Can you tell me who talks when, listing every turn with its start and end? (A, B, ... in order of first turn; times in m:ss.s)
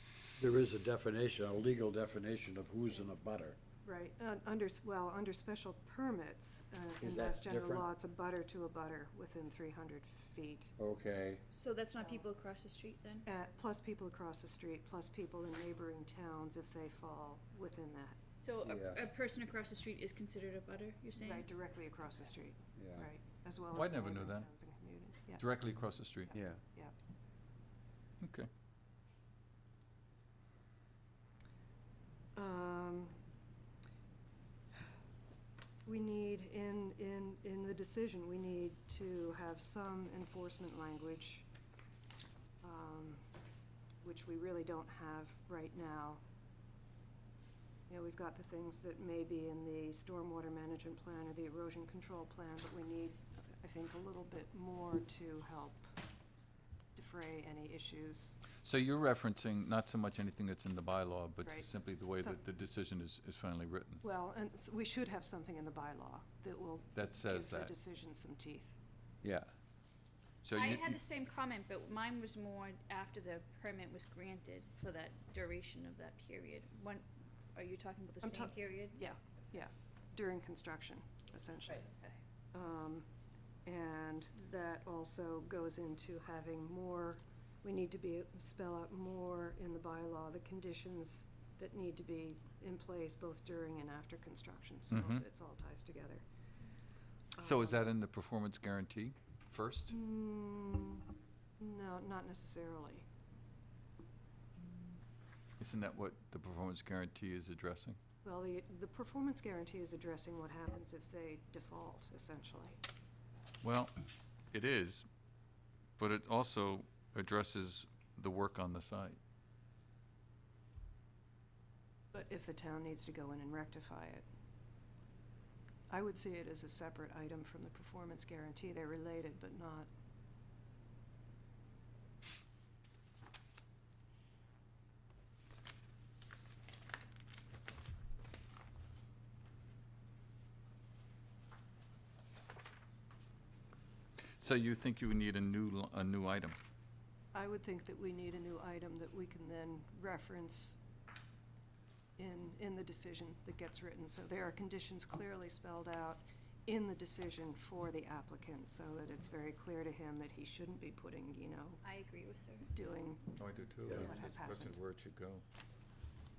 0:00.4-0:03.6 A
0:03.8-0:10.8 B
0:07.0-0:07.9 A
0:10.8-0:11.4 A
0:11.6-0:13.3 C
0:12.0-0:12.3 B
0:13.3-0:18.2 B
0:18.4-0:21.5 C
0:18.6-0:19.0 A
0:21.2-0:25.4 B
0:22.8-0:23.1 A
0:23.7-0:24.5 D
0:25.3-0:26.4 D
0:26.3-0:27.0 B
0:28.2-0:28.5 D
0:32.4-0:33.2 B
0:35.8-0:41.5 B
0:42.6-0:43.2 B
0:44.0-0:46.2 B
0:47.9-0:55.9 B
0:57.0-0:58.4 B
0:58.6-1:04.0 D
1:01.4-1:02.4 B
1:04.0-1:08.8 B
1:06.9-1:07.7 D
1:10.4-1:11.0 D
1:10.5-1:19.0 C
1:18.2-1:21.9 B
1:22.5-1:23.1 B
1:23.6-1:36.2 B
1:34.9-1:35.2 D
1:37.4-1:37.9 B
1:37.4-1:40.0 D
1:39.9-1:43.0 B
1:45.6-1:48.0 D
1:48.2-1:52.8 B
1:53.6-1:53.9 D
1:54.5-1:55.1 D
1:56.0-1:59.2 D
2:02.1-2:04.2 B
2:05.9-2:09.9 B
2:24.4-2:26.6 D
2:27.3-2:30.8 B
2:32.2-2:41.8 B
2:41.8-2:42.7 C
2:42.7-2:43.3 B
2:43.4-2:45.4 D
2:43.8-2:44.8 B